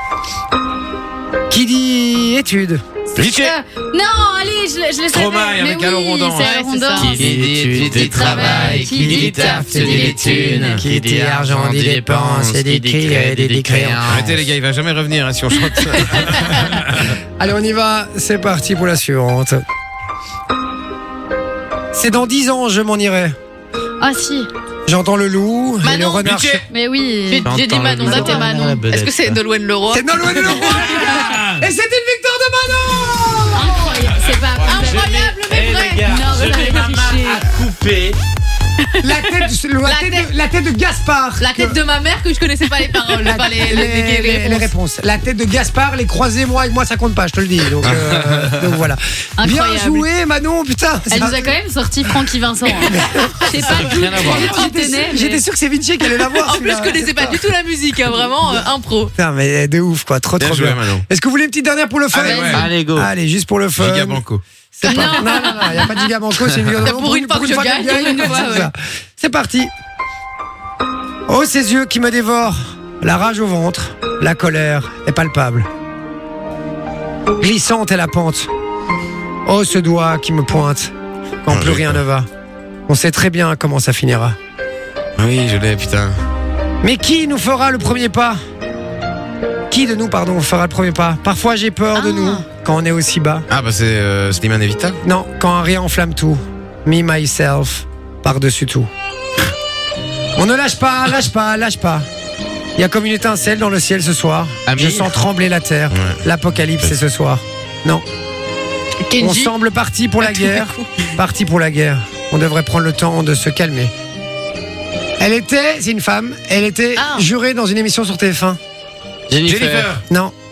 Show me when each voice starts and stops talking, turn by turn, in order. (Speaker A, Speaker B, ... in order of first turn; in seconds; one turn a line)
Speaker A: 1.5-2.8
Speaker B: 3.1-7.3
Speaker C: 3.2-3.6
Speaker C: 5.1-6.5
Speaker D: 6.4-7.2
Speaker E: 7.0-14.5
Speaker C: 7.2-10.8
Speaker B: 7.9-10.8
Speaker A: 8.4-14.1
Speaker C: 14.1-17.2
Speaker A: 17.4-19.6
Speaker A: 21.9-23.4
Speaker B: 24.0-24.5
Speaker A: 24.9-26.6
Speaker D: 25.8-26.3
Speaker C: 26.2-26.6
Speaker B: 26.7-27.5
Speaker D: 27.3-31.1
Speaker E: 27.4-29.4
Speaker B: 28.0-28.8
Speaker A: 29.9-33.9
Speaker C: 31.1-31.6
Speaker B: 33.5-35.3
Speaker C: 34.1-34.7
Speaker D: 34.7-36.3
Speaker E: 34.8-38.2
Speaker B: 36.0-37.5
Speaker A: 39.0-41.8
Speaker D: 39.9-40.3
Speaker D: 41.4-44.7
Speaker A: 43.2-51.5
Speaker E: 47.8-48.7
Speaker B: 49.4-50.1
Speaker B: 51.1-55.4
Speaker A: 52.9-57.4
Speaker E: 53.6-54.5
Speaker D: 56.4-59.1
Speaker A: 59.2-64.2
Speaker C: 60.4-61.0
Speaker C: 62.1-62.7
Speaker E: 62.5-63.1
Speaker C: 63.8-64.4
Speaker A: 64.8-69.7
Speaker D: 64.8-65.9
Speaker B: 64.9-65.6
Speaker D: 66.8-68.4
Speaker B: 67.9-68.7
Speaker A: 71.3-75.7
Speaker A: 77.4-78.5
Speaker A: 79.5-82.3
Speaker C: 81.5-82.0
Speaker A: 82.9-84.4
Speaker C: 85.2-86.2
Speaker A: 86.8-88.4
Speaker A: 89.7-93.5
Speaker B: 92.0-92.5
Speaker C: 93.5-95.0
Speaker A: 95.0-98.9
Speaker A: 100.4-102.1
Speaker A: 102.8-108.0
Speaker E: 104.7-105.1
Speaker C: 105.9-106.2
Speaker D: 109.1-109.5
Speaker A: 109.2-113.9
Speaker D: 110.3-110.9
Speaker A: 115.2-118.6
Speaker D: 117.0-117.3
Speaker E: 119.3-119.9
Speaker C: 119.4-120.0
Speaker A: 120.0-120.3